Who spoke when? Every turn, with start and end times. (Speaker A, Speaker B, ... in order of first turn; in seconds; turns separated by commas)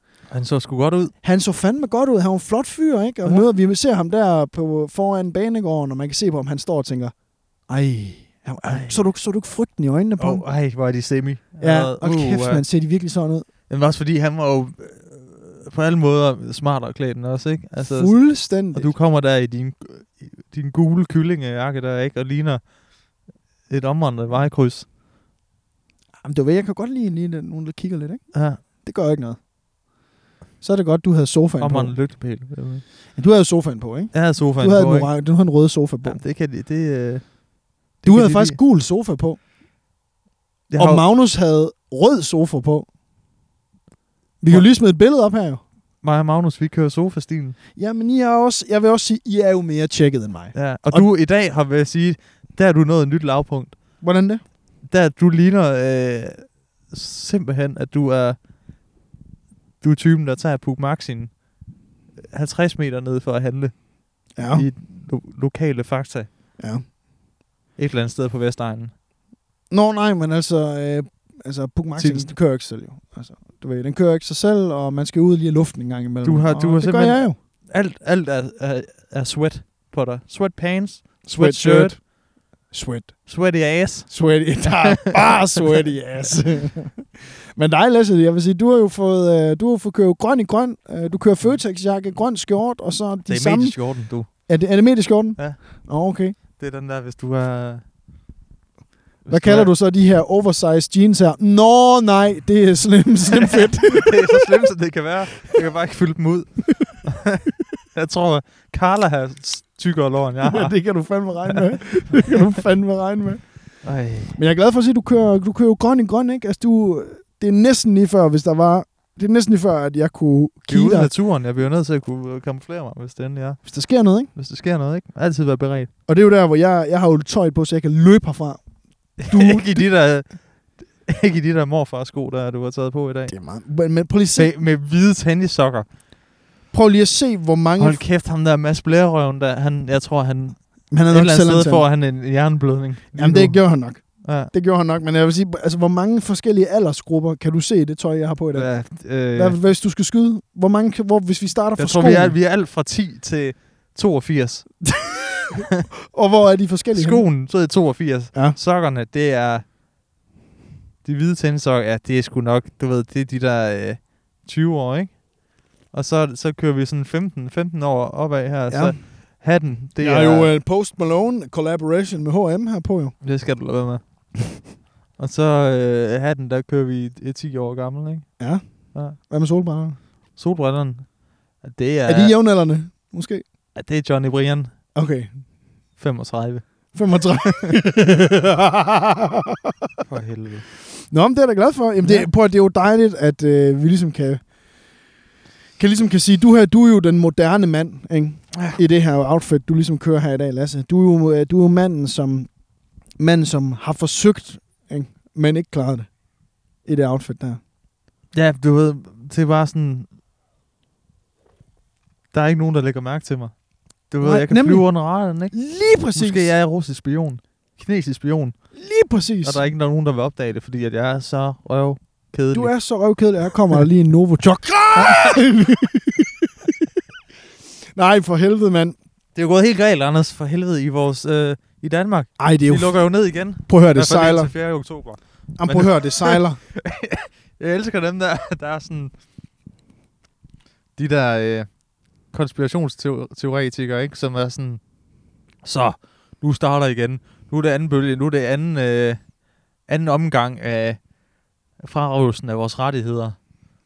Speaker A: 0.3-1.1, Speaker B: 1.2-10.5, Speaker A: 3.2-3.5, Speaker A: 8.6-9.0, Speaker A: 10.2-12.6, Speaker B: 11.6-13.5, Speaker A: 13.7-22.8, Speaker B: 17.8-18.9, Speaker A: 23.7-24.9, Speaker B: 26.2-29.4, Speaker A: 28.3-28.6, Speaker B: 30.6-32.1, Speaker A: 31.6-32.8, Speaker B: 33.1-36.2, Speaker A: 34.1-35.1, Speaker A: 36.0-38.6, Speaker B: 38.0-39.4, Speaker A: 40.7-41.0, Speaker B: 40.8-42.9, Speaker B: 44.4-45.6, Speaker A: 46.0-47.6, Speaker B: 47.8-51.1, Speaker A: 50.5-54.0, Speaker B: 54.0-54.4, Speaker A: 54.8-58.4, Speaker A: 59.8-61.5, Speaker A: 62.2-66.3, Speaker B: 64.3-64.7, Speaker B: 66.6-66.8, Speaker A: 67.8-68.9, Speaker B: 69.7-77.4, Speaker A: 72.0-72.4, Speaker A: 76.2-82.0, Speaker B: 81.2-96.4, Speaker A: 83.3-85.8, Speaker A: 93.3-94.5, Speaker A: 95.4-95.8, Speaker A: 96.4-97.9, Speaker A: 99.2-99.7, Speaker B: 99.3-104.7, Speaker A: 103.3-110.8, Speaker B: 110.4-121.1, Speaker A: 111.5-112.2, Speaker A: 113.8-114.4, Speaker A: 120.7-125.9, Speaker B: 123.6-124.3, Speaker B: 126.1-129.9, Speaker A: 129.2-133.4, Speaker B: 133.3-134.5, Speaker A: 134.3-135.9, Speaker B: 136.7-138.0, Speaker A: 137.8-144.5, Speaker B: 140.9-141.9, Speaker B: 143.2-152.4, Speaker A: 148.5-149.6, Speaker A: 151.8-155.1, Speaker B: 156.1-157.3, Speaker A: 156.9-159.7, Speaker B: 158.3-158.6, Speaker A: 161.0-165.3, Speaker A: 165.9-170.5, Speaker B: 168.7-169.4, Speaker B: 170.0-173.2, Speaker A: 173.2-174.7, Speaker A: 175.2-179.2, Speaker B: 178.4-180.0, Speaker A: 180.3-182.4, Speaker B: 182.1-183.4, Speaker A: 183.7-184.8, Speaker B: 184.9-185.4, Speaker A: 186.0-187.2, Speaker B: 186.9-189.3, Speaker A: 190.1-190.7, Speaker B: 191.1-194.5, Speaker A: 192.0-192.3, Speaker B: 195.8-207.6, Speaker A: 198.5-198.8, Speaker A: 208.3-210.1, Speaker A: 212.3-218.8, Speaker B: 214.2-216.5, Speaker B: 218.7-219.6, Speaker A: 219.4-222.8, Speaker B: 222.5-226.3, Speaker A: 225.0-225.4, Speaker B: 227.9-229.0, Speaker A: 229.3-239.2, Speaker B: 232.4-234.6, Speaker B: 235.6-236.6, Speaker A: 240.9-244.8, Speaker A: 245.6-251.1, Speaker A: 251.8-253.4